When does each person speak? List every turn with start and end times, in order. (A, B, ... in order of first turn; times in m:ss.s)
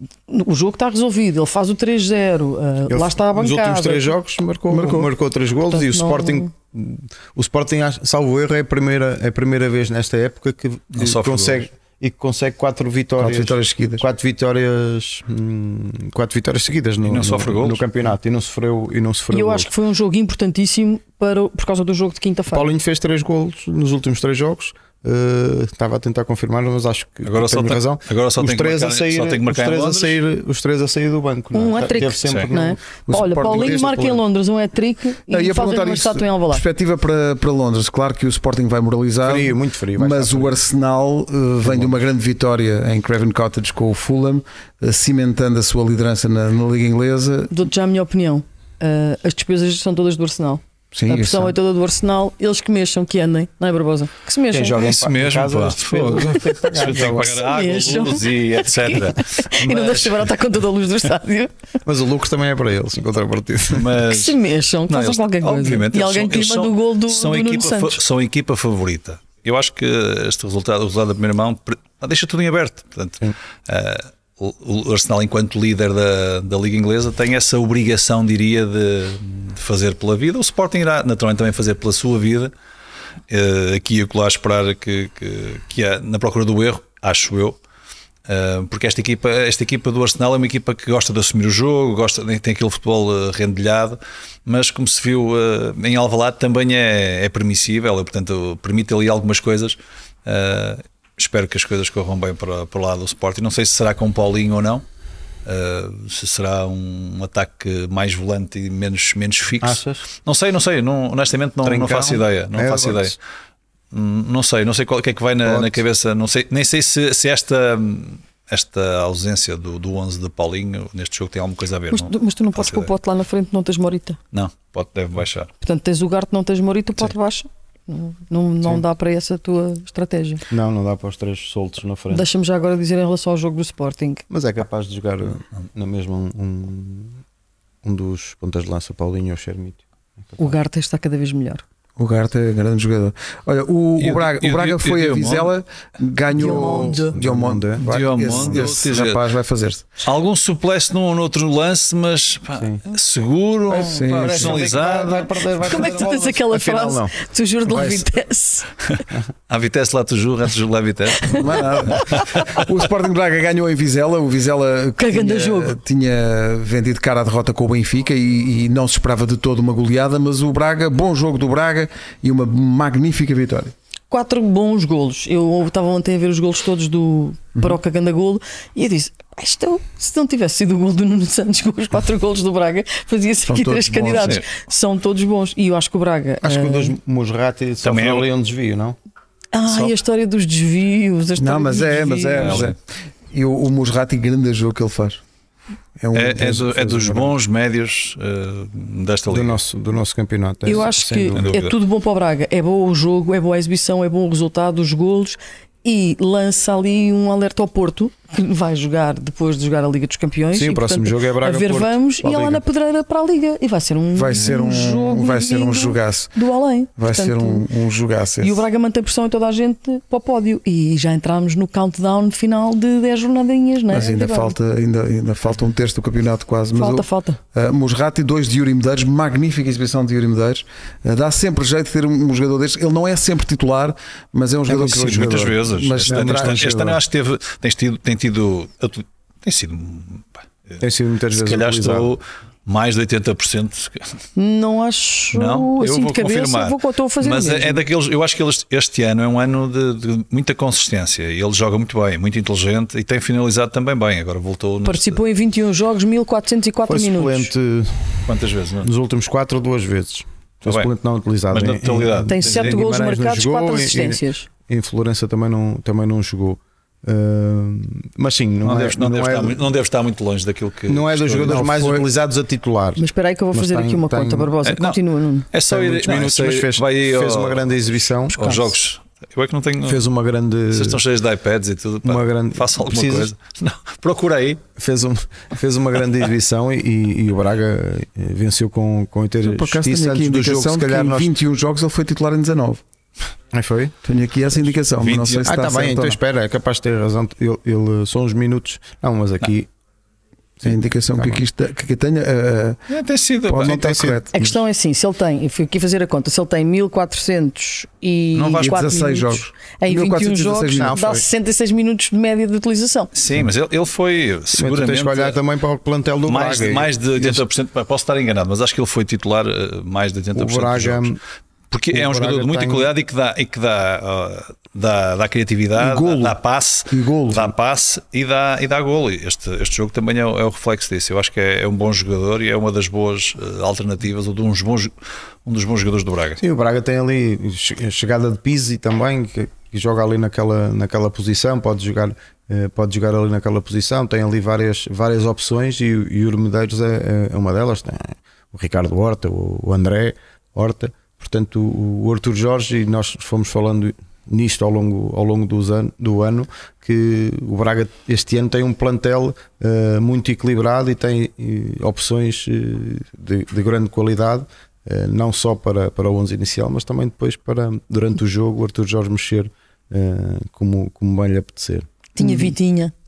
0:00.3-0:04.1 A
0:02.9-0:19.7 B
0:04.7-0:05.1 C
0:05.7-0:06.5 A
0:10.9-0:11.6 D
0:13.2-0:14.0 C
0:17.0-0:17.8 D
0:19.3-0:22.7 A
0:22.5-0:32.8 B
0:27.2-0:30.2 D
0:31.5-0:36.6 A
0:32.2-0:32.5 D
0:33.1-0:33.8 C
0:33.4-0:34.2 B
0:35.3-0:47.5 C
0:39.2-0:40.6 B
0:41.6-0:42.0 B
0:47.5-0:54.8 A
0:50.9-0:51.5 C
0:54.5-0:57.3 B
0:54.8-1:00.0 D
0:57.1-1:01.5 A
1:01.8-1:04.0 B
1:03.7-1:22.5 D
1:04.0-1:08.0 A
1:23.3-1:27.6 D
1:28.3-1:44.8 D
1:45.4-1:53.2 D
1:49.6-1:50.0 B
1:51.6-1:53.2 B
1:53.9-2:02.9 D
1:55.4-1:55.8 B
2:01.9-2:04.2 A
2:04.3-2:05.5 D
2:05.6-2:10.4 A
2:10.5-2:12.3 B
2:12.1-2:14.2 A
2:14.3-2:17.2 B
2:17.8-2:20.5 B
2:20.4-2:21.6 A
2:22.0-2:29.9 C
2:24.0-2:25.5 D
2:26.3-2:27.2 A
2:26.3-2:28.8 B
2:27.8-2:29.2 D
2:30.0-2:35.4 D
2:33.7-2:37.1 B
2:33.9-2:34.6 C
2:35.6-2:38.7 A
2:37.7-2:38.0 B
2:39.5-2:42.6 D
2:41.2-2:42.2 A
2:41.3-2:53.7 C
2:45.0-2:45.8 A
2:54.1-3:07.0 A
3:03.5-3:04.4 C
3:04.1-3:04.4 D
3:06.4-3:09.0 B
3:07.8-3:08.2 D
3:09.5-3:12.7 A
3:11.4-3:12.8 C
3:12.3-3:12.7 D
3:13.3-3:15.2 C
3:16.0-3:17.2 C
3:16.1-3:19.6 D
3:16.7-3:17.2 B
3:19.3-3:21.6 B
3:20.6-3:37.6 A
3:21.3-3:21.7 D
3:30.5-3:32.6 B
3:34.1-3:36.3 C
3:37.0-3:38.6 C
3:38.4-3:44.6 A
3:43.9-3:56.7 C
3:46.7-3:47.4 A
3:54.7-4:00.8 D
3:54.7-3:55.4 B
3:56.0-3:57.0 B
4:00.8-4:02.1 B
4:01.3-4:04.2 D
4:04.4-4:07.8 A
4:05.3-4:15.2 D
4:14.8-4:17.5 A
4:16.9-4:18.2 B
4:18.2-4:18.9 D
4:18.8-4:29.6 B
4:21.5-4:22.8 D
4:22.3-4:24.5 A
4:28.6-4:31.7 D
4:30.9-4:34.5 B
4:31.4-4:32.0 C
4:33.0-4:35.5 A
4:34.6-4:35.0 D
4:35.5-4:37.7 D
4:35.7-4:38.6 B
4:38.3-4:40.0 D
4:39.8-4:41.0 B
4:40.7-4:44.6 D
4:42.0-4:43.3 B
4:44.8-4:51.3 B
4:49.4-4:52.8 C
4:53.5-4:53.9 B
4:54.0-4:56.2 C
4:55.0-4:55.5 D
4:55.4-4:59.7 B
5:00.6-5:01.4 B
5:00.6-5:02.8 C
5:02.9-5:03.8 D
5:03.5-5:04.5 C
5:03.6-5:04.2 B
5:04.3-5:13.1 A
5:08.3-5:08.8 D
5:08.6-5:11.0 C
5:10.6-5:11.2 B
5:13.1-5:15.4 D
5:14.5-5:17.4 B
5:16.2-5:21.1 D
5:20.3-5:21.2 B
5:21.7-5:34.9 D
5:21.9-5:22.9 B
5:25.8-5:26.4 C
5:26.9-5:27.5 C
5:35.4-5:36.4 D
5:36.4-6:12.5 B
6:12.1-6:12.9 A